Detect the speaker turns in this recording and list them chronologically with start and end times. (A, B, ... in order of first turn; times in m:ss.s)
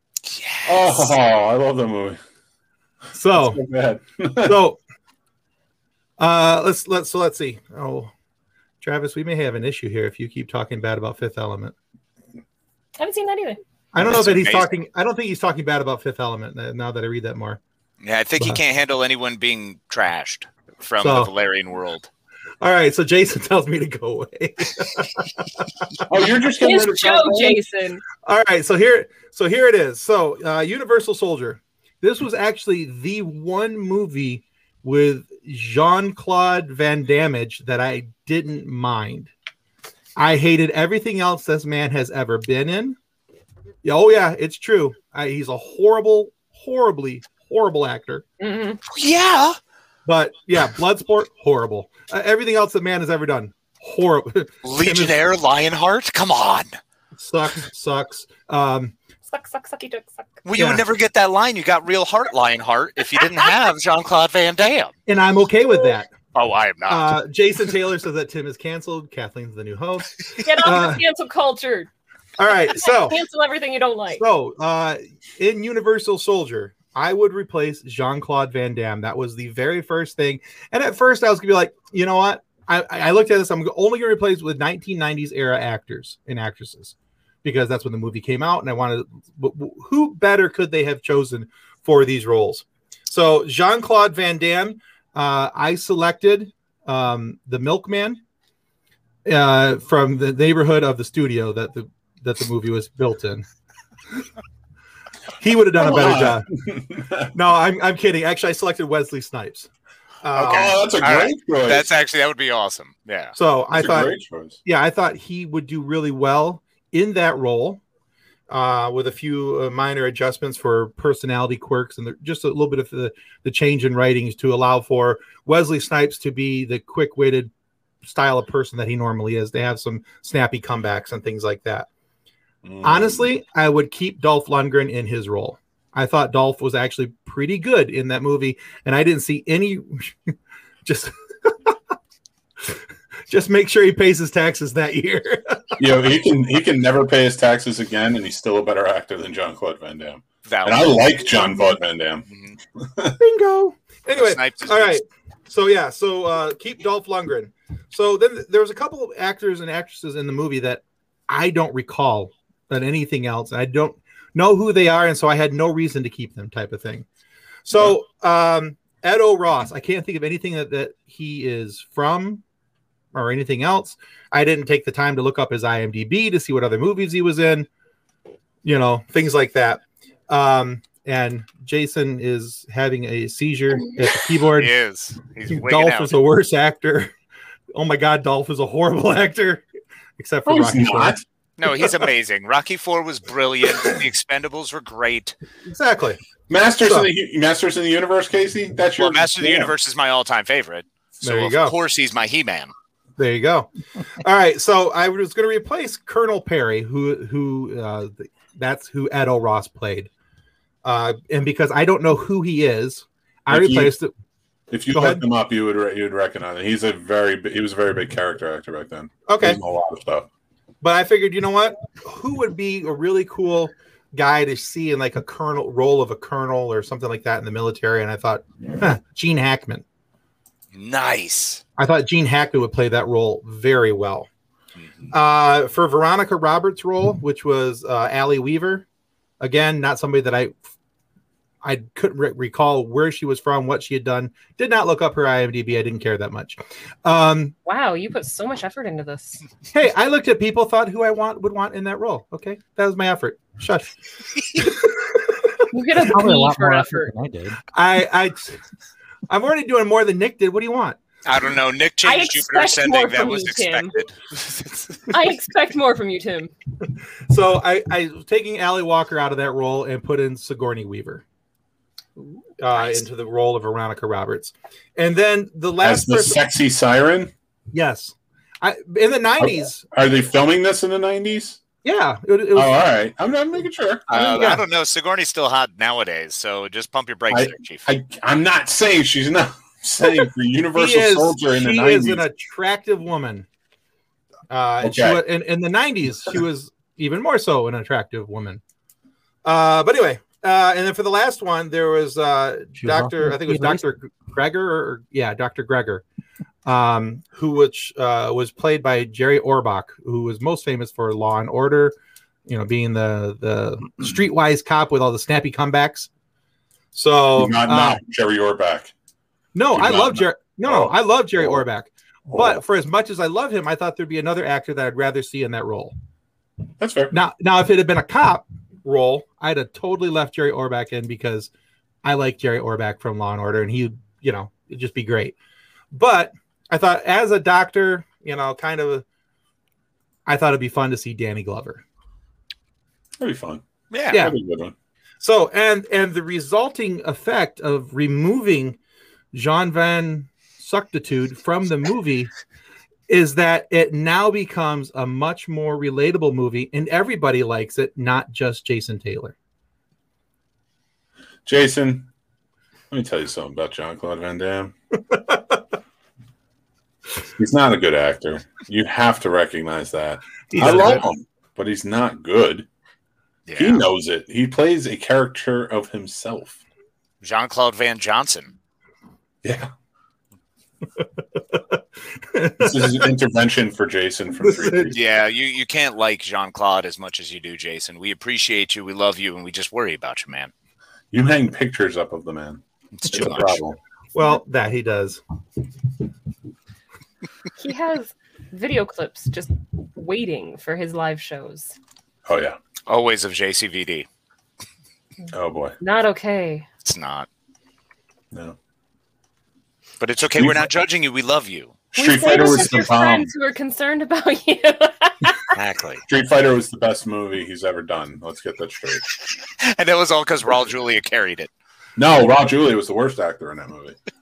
0:00.2-0:01.1 A
0:00.6-0:02.2 B
0:03.1-0:03.6 C
0:03.3-0:04.6 B
0:04.4-0:04.8 C
0:06.2-0:08.1 C
0:08.8-0:11.7 C
0:13.0-0:13.6 D
0:13.9-0:17.6 C
0:14.0-0:14.7 A
0:18.0-0:22.1 A
0:21.0-0:21.3 C
0:22.6-0:26.2 C
0:26.1-0:27.6 B
0:26.6-0:28.0 D
0:28.2-0:39.3 C
0:40.2-0:43.0 C
0:43.8-0:48.2 C
0:48.4-0:48.8 D
0:48.9-0:49.6 A
0:50.0-0:55.1 C
0:54.6-0:56.8 A
0:57.2-0:58.9 C
0:59.3-1:00.3 D
1:00.4-1:04.9 A
1:00.6-1:00.8 C
1:05.1-1:06.1 C
1:06.3-1:07.2 A
1:06.9-1:11.0 C
1:10.4-1:11.9 D
1:12.4-1:13.2 C
1:12.7-1:14.2 D
1:14.2-1:38.2 C
1:39.2-1:43.4 C
1:45.4-1:46.5 C
1:45.8-1:47.3 B
1:47.3-1:49.7 C
1:50.2-1:50.8 C
1:50.3-1:53.3 A
1:50.4-1:51.9 B
1:53.3-1:54.1 C
1:53.7-1:54.6 B
1:54.6-1:57.8 C
1:58.5-2:07.5 C
2:08.0-2:11.9 C
2:12.6-2:13.3 B
2:12.8-2:20.3 C
2:20.8-2:21.8 C
2:23.3-2:25.8 C
2:25.8-2:33.2 B
2:30.4-2:31.1 A
2:32.3-2:32.6 A
2:33.2-2:47.0 C
2:34.1-2:35.0 A
2:47.6-2:52.4 C
2:53.1-2:57.7 C
2:58.6-3:04.7 C
3:04.5-3:06.2 A
3:05.5-3:07.1 C
3:07.7-3:09.6 C
3:10.2-3:11.2 C
3:10.4-3:11.2 B
3:11.6-3:15.3 A
3:15.7-3:16.2 C
3:16.5-3:19.7 B
3:16.8-3:17.1 C
3:19.0-3:22.7 A
3:21.2-3:21.7 C
3:23.2-3:30.1 C
3:30.8-3:34.1 C
3:33.5-3:33.9 B
3:34.7-3:40.3 B
3:34.9-3:35.2 C
3:39.3-3:39.6 C
3:40.8-3:49.8 C
3:50.7-3:51.6 A
3:51.8-3:54.3 C
3:55.1-3:58.8 C
3:59.4-4:00.6 C
4:01.6-4:07.5 C
4:07.6-4:09.4 D
4:09.7-4:13.9 C
4:14.5-4:15.3 C
4:15.7-4:17.1 D
4:16.0-4:17.6 E
4:17.7-4:18.6 C
4:19.3-4:21.0 C
4:21.2-4:25.0 A
4:22.0-4:24.0 D
4:25.1-4:26.5 D
4:27.3-4:31.2 C
4:32.6-4:36.4 C
4:35.8-4:37.3 B
4:37.7-4:39.8 C
4:39.4-4:41.6 B
4:41.8-4:42.8 C
4:42.5-4:44.4 B
4:44.1-4:47.9 A
4:44.1-4:44.6 C
4:47.3-4:52.2 B
4:50.8-4:53.4 C
4:54.5-4:58.6 C
4:54.8-4:55.2 B
4:59.4-5:06.0 C
5:02.8-5:03.8 E
5:06.6-5:11.9 C
5:12.5-5:16.1 C
5:16.9-5:18.0 C
5:17.3-5:18.9 B
5:19.5-5:25.9 C
5:19.7-5:21.6 B
5:22.3-5:22.6 B
5:26.8-5:27.2 B
5:27.1-5:31.5 C
5:32.0-5:35.3 C
5:35.9-5:39.0 C
5:40.2-5:41.8 C
5:43.2-5:44.7 B
5:43.9-5:44.2 A
5:44.1-5:44.4 C
5:45.2-5:48.8 C
5:49.3-5:52.3 C
5:53.1-5:59.3 C
6:01.4-6:02.1 B
6:02.9-6:04.7 B
6:05.1-6:05.6 C
6:07.4-6:12.7 B
6:10.5-6:11.0 C
6:13.5-6:13.8 A
6:13.6-6:16.6 B
6:17.2-6:18.5 A
6:19.4-6:19.7 B
6:22.3-6:23.1 C
6:22.6-6:25.0 B
6:24.4-6:24.9 C
6:24.9-6:30.5 A
6:31.1-6:33.8 B
6:32.9-6:33.6 A
6:34.1-6:35.2 C
6:37.6-6:41.7 D
6:42.2-6:42.6 B
6:42.9-6:44.1 A
6:45.3-6:45.8 B
6:45.8-6:46.6 D
6:46.8-6:47.3 A
6:50.0-6:51.8 A
6:50.4-6:50.7 B
6:51.9-6:53.3 B
6:52.0-6:55.5 D
6:55.5-6:56.0 A
6:56.0-6:59.0 B
6:59.6-7:01.5 A
7:02.0-7:04.0 B